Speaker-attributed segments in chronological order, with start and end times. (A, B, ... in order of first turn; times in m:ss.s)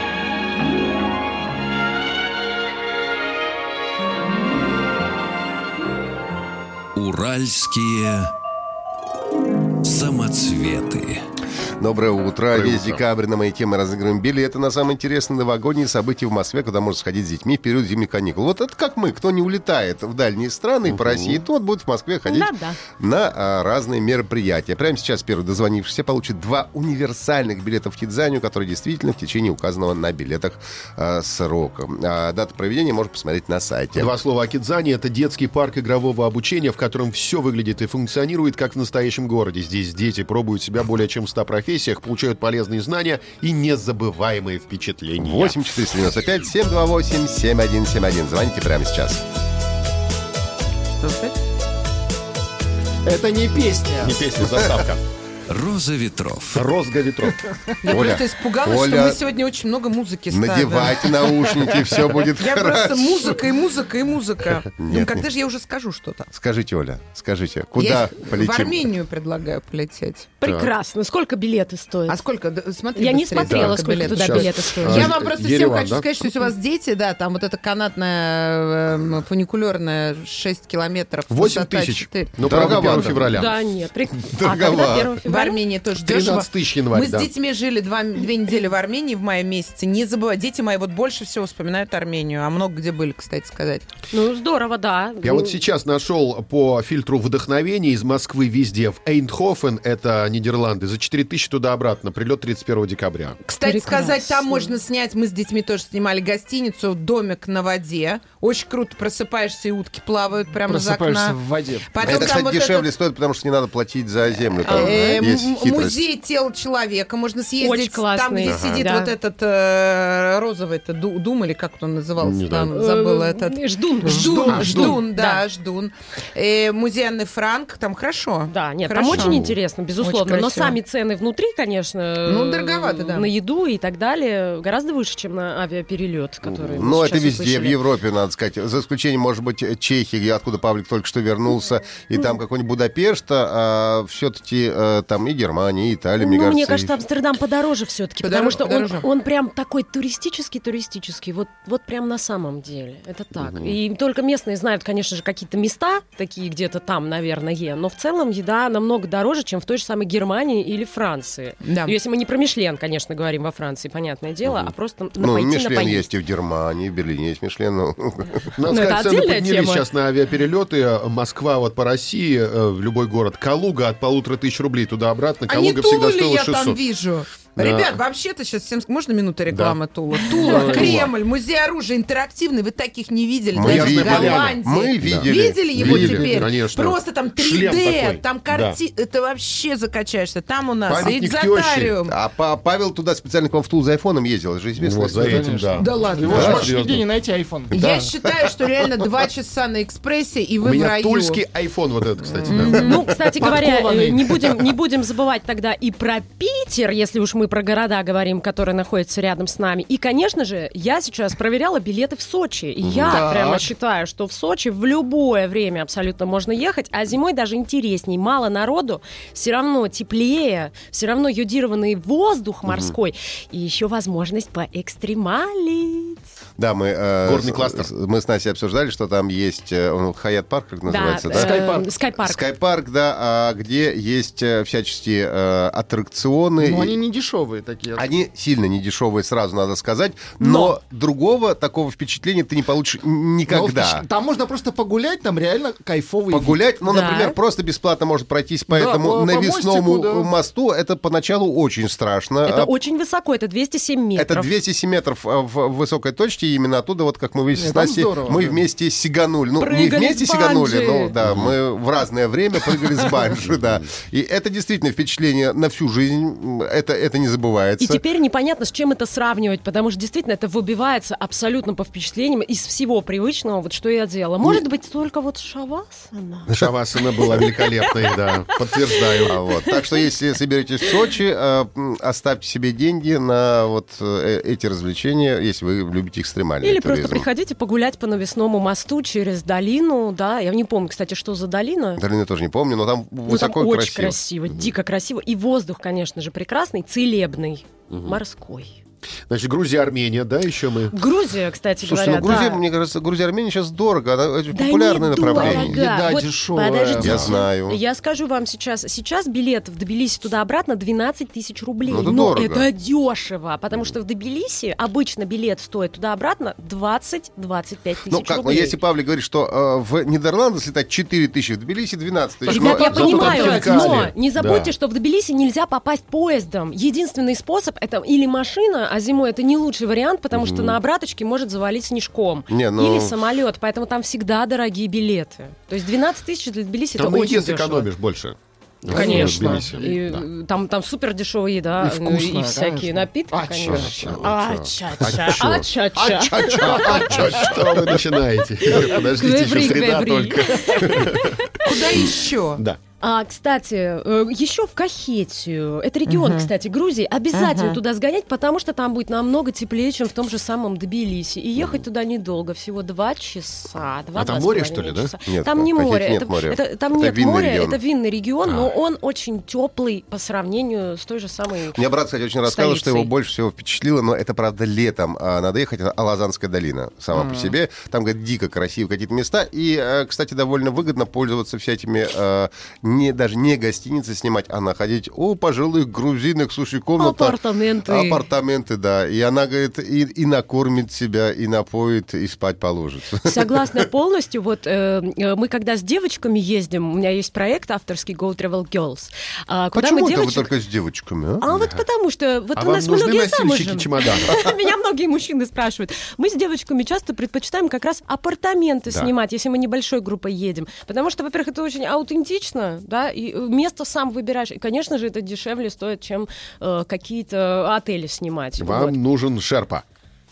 0:07.0-0:08.3 A
0:09.8-0:11.2 A
0:11.8-0:34.1 B
0:12.5-0:13.0 C
0:20.9-0:21.4 C
0:22.2-0:22.8 D
0:34.0-0:45.6 C
0:45.2-0:49.2 B
0:51.0-0:51.3 E
0:53.0-0:54.2 F
0:54.0-0:55.0 C
0:55.5-0:56.7 A
0:56.5-0:57.5 C
0:57.8-1:01.5 E
0:57.9-0:59.2 B
1:00.3-1:03.4 B
1:02.3-1:06.3 E
1:04.8-1:05.2 B
1:06.3-1:08.9 B
1:07.8-1:10.3 E
1:10.4-1:12.2 D
1:10.4-1:10.7 C
1:12.1-1:23.1 E
1:13.0-1:15.1 D
1:13.4-1:16.1 C
1:21.3-1:23.6 C
1:22.4-1:23.4 B
1:23.3-1:25.6 D
1:24.2-1:25.2 B
1:25.2-1:33.9 E
1:26.0-1:27.3 C
1:34.1-1:35.6 D
1:35.2-1:43.4 C
1:43.4-1:52.9 E
1:43.6-1:44.7 D
1:50.7-1:51.9 F
1:52.0-1:56.1 B
1:54.6-2:09.4 E
1:54.7-1:55.2 D
1:57.6-1:59.1 D
1:58.4-1:58.9 C
2:02.2-2:02.7 C
2:02.7-2:05.4 D
2:04.2-2:04.8 F
2:04.5-2:05.0 C
2:08.5-2:17.8 D
2:09.1-2:09.6 C
2:10.0-2:10.8 E
2:12.3-2:13.3 E
2:16.4-2:16.9 C
2:16.8-2:27.0 B
2:26.2-2:46.1 D
2:28.2-2:29.1 E
2:33.4-2:33.8 C
2:41.6-2:42.0 E
2:45.2-2:48.5 B
2:48.5-2:56.8 C
2:48.7-2:49.9 D
2:55.5-3:12.2 E
2:57.6-2:58.0 C
2:59.5-3:01.1 C
3:03.5-3:06.5 B
3:03.6-3:08.8 C
3:10.9-3:12.0 C
3:12.1-3:15.6 B
3:14.8-3:17.1 C
3:15.2-3:17.8 F
3:15.8-3:16.7 E
3:16.3-3:16.7 B
3:17.7-3:21.4 E
3:20.6-3:22.9 C
3:22.4-3:23.0 E
3:22.5-3:46.2 D
3:23.4-3:24.5 F
3:32.8-3:33.3 C
3:33.1-3:33.7 F
3:42.7-3:43.0 C
3:46.6-3:51.6 B
3:47.2-3:47.9 C
3:50.9-3:52.5 D
3:51.3-3:51.9 F
3:52.2-3:57.0 B
3:56.6-3:58.1 F
3:58.0-4:04.0 B
4:00.4-4:00.8 D
4:03.5-4:06.6 F
4:06.3-4:12.7 B
4:06.8-4:07.4 D
4:08.7-4:10.3 F
4:12.4-4:14.5 D
4:14.2-4:28.0 B
4:17.6-4:18.6 F
4:19.6-4:21.2 D
4:21.2-4:21.5 C
4:27.8-4:39.8 D
4:36.5-4:39.4 C
4:39.3-4:47.3 B
4:46.6-4:52.0 D
4:52.0-4:54.2 B
4:53.3-4:58.8 D
4:57.9-4:58.2 C
4:59.3-5:01.0 C
5:00.9-5:02.6 D
5:01.8-5:05.8 B
5:04.5-5:18.8 D
5:05.3-5:07.2 F
5:07.0-5:07.8 B
5:11.9-5:12.7 B
5:18.1-5:23.3 B
5:22.4-5:37.9 D
5:22.5-5:24.1 F
5:22.5-5:24.7 C
5:30.3-5:30.8 C
5:32.5-5:33.2 B
5:37.0-5:40.3 C
5:38.9-5:47.2 D
5:38.9-5:39.7 F
5:41.8-5:44.2 F
5:43.6-5:51.4 C
5:46.6-5:47.6 B
5:48.6-5:51.9 D
5:51.6-5:52.6 E
5:52.0-5:52.8 C
5:53.0-6:11.8 D
5:56.1-5:56.5 E
5:57.3-5:57.8 E
6:04.2-6:05.2 C
6:05.3-6:07.8 B
6:08.5-6:08.7 C
6:11.7-6:33.8 B
6:12.4-6:13.1 D
6:27.0-6:28.2 D
6:33.2-6:40.5 D
6:39.7-6:41.5 B
6:41.4-6:59.0 D
6:41.5-6:41.8 C
6:42.6-6:44.3 C
6:58.6-6:59.8 C